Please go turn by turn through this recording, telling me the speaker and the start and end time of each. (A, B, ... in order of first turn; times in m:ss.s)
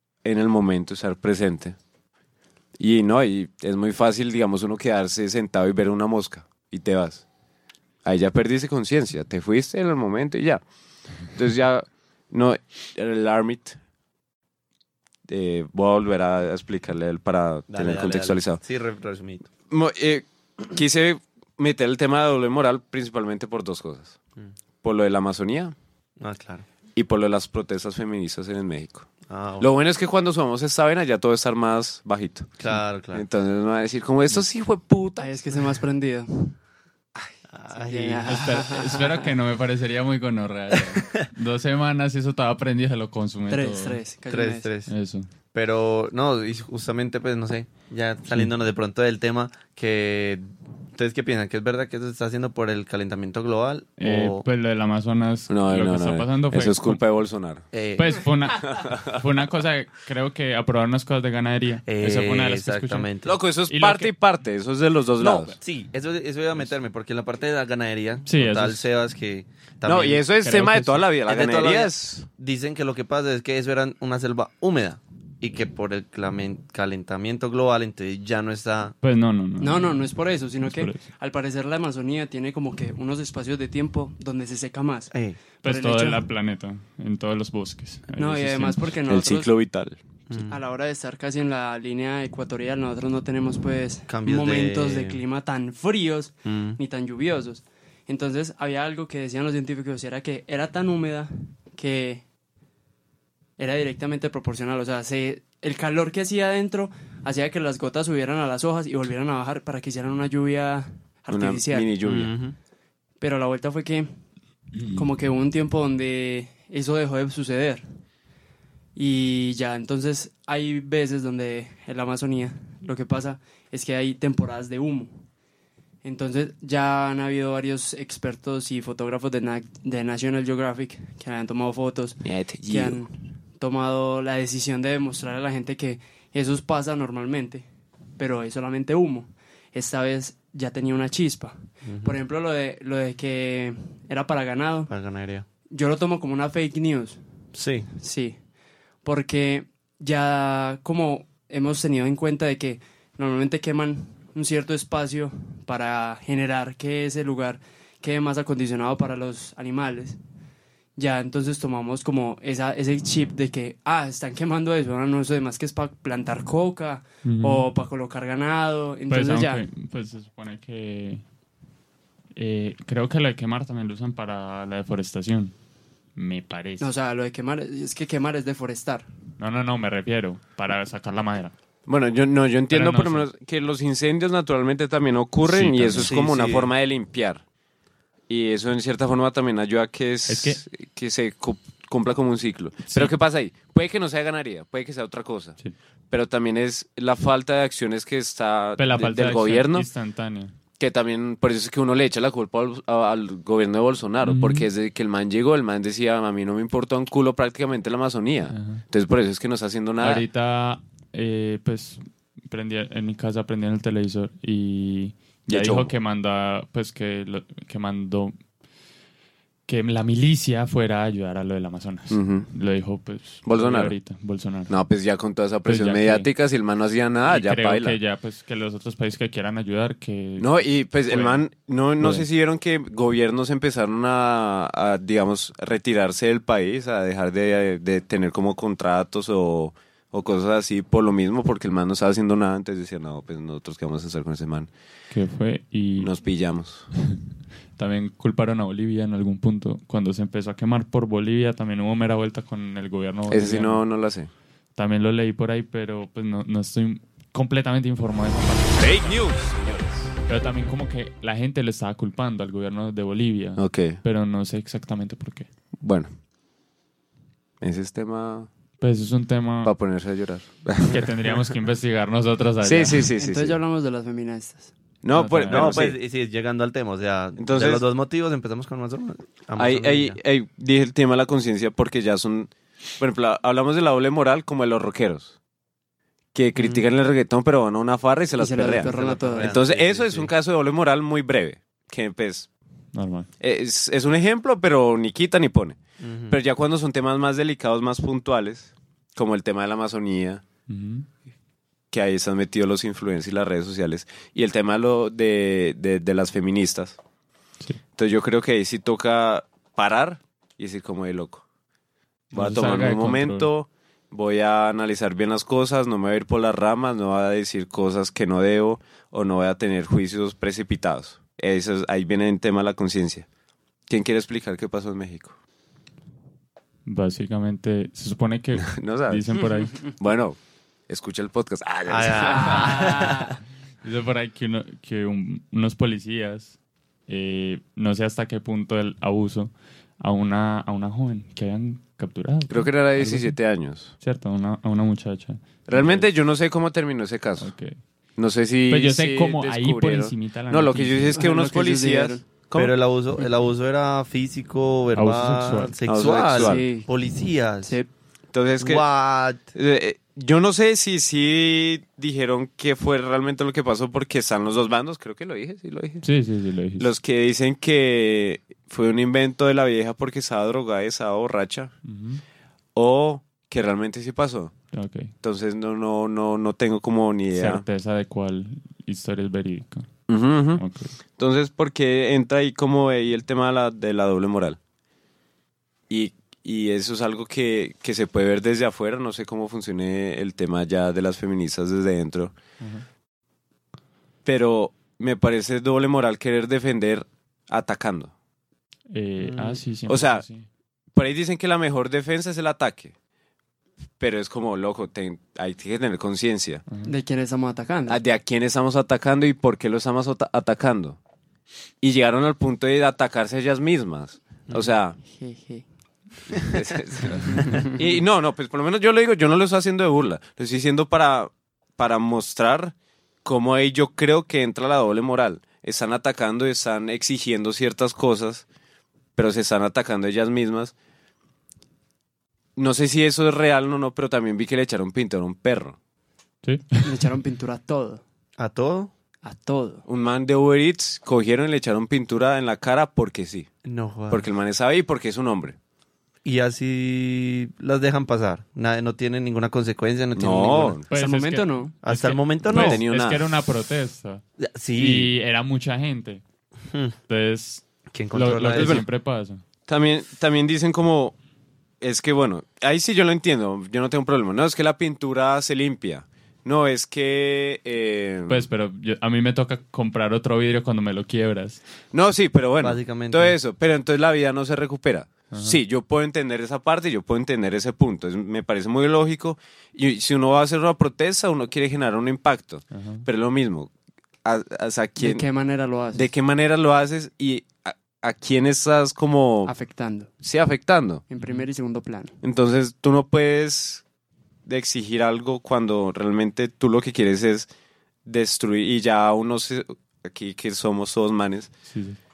0:00.2-0:01.8 A
0:02.8-0:07.2 A
0:08.0-0:10.6 A
0:11.3-0:13.8 A
0:15.3-0:18.6 A
0:17.7-0:19.5 B
0:19.7-0:24.2 A
0:24.8-0:25.7 A
0:26.2-0:26.6 B
0:27.0-0:29.1 A
0:29.3-0:29.7 B
0:29.6-0:32.5 A
0:32.6-0:33.2 B
0:33.1-0:35.3 A
0:35.2-0:36.6 C
0:37.5-0:38.5 B
0:37.7-0:39.2 C
0:38.3-0:44.0 D
0:41.0-0:41.2 B
0:43.5-0:44.7 C
0:44.3-0:44.9 B
0:44.9-0:45.3 D
0:45.5-0:50.4 B
0:51.0-0:54.4 B
0:54.0-0:57.0 D
0:55.5-0:57.6 A
0:57.7-0:58.1 B
0:58.0-1:03.1 D
0:58.6-0:59.2 A
1:01.8-1:03.3 B
1:03.2-1:05.6 A
1:03.7-1:04.1 D
1:05.2-1:10.2 B
1:08.2-1:08.9 D
1:09.8-1:12.2 A
1:10.4-1:11.0 D
1:11.2-1:18.9 B
1:19.0-1:20.1 D
1:19.6-1:26.2 C
1:20.6-1:21.0 D
1:25.1-1:25.4 B
1:25.6-1:29.0 D
1:28.1-1:29.5 C
1:29.1-1:30.0 A
1:30.3-1:30.6 B
1:30.5-1:42.2 C
1:34.1-1:35.2 B
1:36.4-1:36.8 B
1:43.6-1:51.9 C
1:51.3-1:52.3 A
1:52.0-1:52.6 B
1:53.2-1:54.1 C
1:54.8-1:55.0 D
1:54.9-1:57.8 C
1:58.9-2:05.2 C
2:06.0-2:17.6 C
2:12.2-2:13.0 A
2:18.2-2:24.9 C
2:21.8-2:22.2 B
2:24.9-2:25.4 B
2:25.7-2:27.2 C
2:27.5-2:27.9 B
2:27.9-2:28.4 C
2:29.0-2:40.2 C
2:41.0-2:49.6 C
2:47.2-2:47.7 D
2:49.1-2:51.2 D
2:52.3-2:55.5 D
2:56.2-2:56.9 D
2:56.8-2:59.1 C
2:59.4-3:01.5 D
3:01.9-3:07.4 A
3:02.7-3:03.3 D
3:05.4-3:06.1 D
3:06.0-3:06.7 B
3:08.3-3:15.6 A
3:10.3-3:10.6 D
3:16.1-3:19.9 A
3:18.8-3:20.6 D
3:20.8-3:30.2 A
3:24.2-3:24.7 D
3:28.5-3:28.8 D
3:30.0-3:38.4 D
3:35.5-3:35.9 A
3:39.7-3:44.8 D
3:42.1-3:42.5 A
3:43.4-3:43.9 A
3:44.7-3:48.0 A
3:45.6-3:46.3 D
3:47.2-3:51.4 D
3:50.4-4:04.7 A
3:52.0-3:52.2 D
4:05.1-4:06.1 D
4:06.0-4:06.9 A
4:06.9-4:07.2 D
4:07.8-4:13.8 D
4:13.3-4:14.3 A
4:14.8-4:19.1 D
4:18.8-4:20.1 A
4:20.3-4:25.5 D
4:23.6-4:24.0 A
4:25.8-4:26.1 A
4:27.6-4:28.5 A
4:28.8-4:29.7 D
4:29.6-4:31.0 A
4:30.8-4:33.1 D
4:32.6-4:33.6 A
4:33.2-4:34.7 C
4:35.0-4:36.0 A
4:35.1-4:35.9 D
4:35.5-4:40.2 B
4:37.4-4:37.8 A
4:39.6-4:45.3 A
4:46.3-4:52.5 A
4:46.6-4:46.8 B
4:48.4-4:49.5 C
4:48.7-4:50.3 B
4:52.9-4:53.3 D
4:53.4-4:55.8 A
4:56.0-4:56.4 B
4:56.3-5:00.4 A
5:00.7-5:01.1 D
5:01.9-5:07.0 A
5:08.0-5:11.4 A
5:12.3-5:13.5 D
5:12.3-5:23.2 A
5:23.9-5:25.3 A
5:26.8-5:29.9 D
5:28.6-5:29.3 A
5:29.8-5:33.1 A
5:31.9-5:33.3 B
5:32.3-5:33.3 C
5:32.5-5:33.3 D
5:33.8-5:36.5 D
5:37.1-5:43.4 D
5:42.5-5:43.9 A
5:44.0-5:46.1 D
5:45.7-5:47.5 A
5:47.4-5:47.8 D
5:48.2-5:52.7 A
5:48.7-5:51.2 D
5:51.2-5:52.2 C
5:52.5-5:57.8 B
5:54.9-5:55.8 D
5:55.8-5:56.7 A
5:56.3-5:56.9 C
5:57.6-5:57.9 C
5:58.3-5:58.8 A
5:58.6-5:59.4 B
5:59.5-6:06.0 A
6:06.0-6:06.9 D
6:06.8-6:11.7 A
6:11.8-6:12.2 D
6:12.7-6:14.5 A
6:14.7-6:15.1 D
6:15.2-6:17.6 A
6:17.3-6:19.9 D
6:20.1-6:20.6 A
6:20.6-6:20.9 D
6:21.2-6:24.6 A
6:25.9-6:32.3 A
6:32.6-6:32.8 D
6:34.2-6:38.1 A
6:38.9-6:40.4 D
6:39.2-6:39.6 B
6:39.9-6:40.2 A
6:40.9-6:42.9 A
6:44.0-6:46.6 A
6:46.8-6:48.0 C
6:47.9-6:51.0 A
6:51.8-6:55.0 A
6:55.0-6:55.6 C
6:56.5-7:08.4 A
6:57.4-6:57.7 C
7:09.2-7:10.7 A
7:12.6-7:15.8 A
7:16.4-7:16.9 D
7:16.8-7:18.0 C
7:18.4-7:18.9 B
7:19.2-7:19.8 C
7:19.8-7:23.5 A
7:23.6-7:24.2 B
7:24.1-7:25.6 A
7:26.2-7:30.8 B
7:30.1-7:30.9 A
7:30.9-7:34.2 D
7:30.9-7:31.7 C
7:31.8-7:32.8 B
7:32.5-7:33.2 A
7:34.4-7:35.1 B
7:34.7-7:36.2 D
7:36.7-7:36.9 B
7:37.1-7:39.4 D
7:37.9-7:38.8 B
7:38.5-7:38.8 A
7:39.7-7:41.2 A
7:41.8-7:48.5 A
7:48.3-7:51.6 D
7:51.9-8:03.7 A
7:52.6-7:53.3 B
7:55.3-7:55.6 D
8:02.7-8:03.0 D
8:04.2-8:05.2 A
8:05.0-8:06.1 C
8:05.9-8:09.5 A
8:09.4-8:10.1 C
8:10.2-8:11.0 A
8:11.1-8:12.1 C
8:11.2-8:11.4 D
8:12.2-8:13.8 A
8:14.4-8:17.5 A
8:18.0-8:21.5 A
8:21.7-8:22.0 D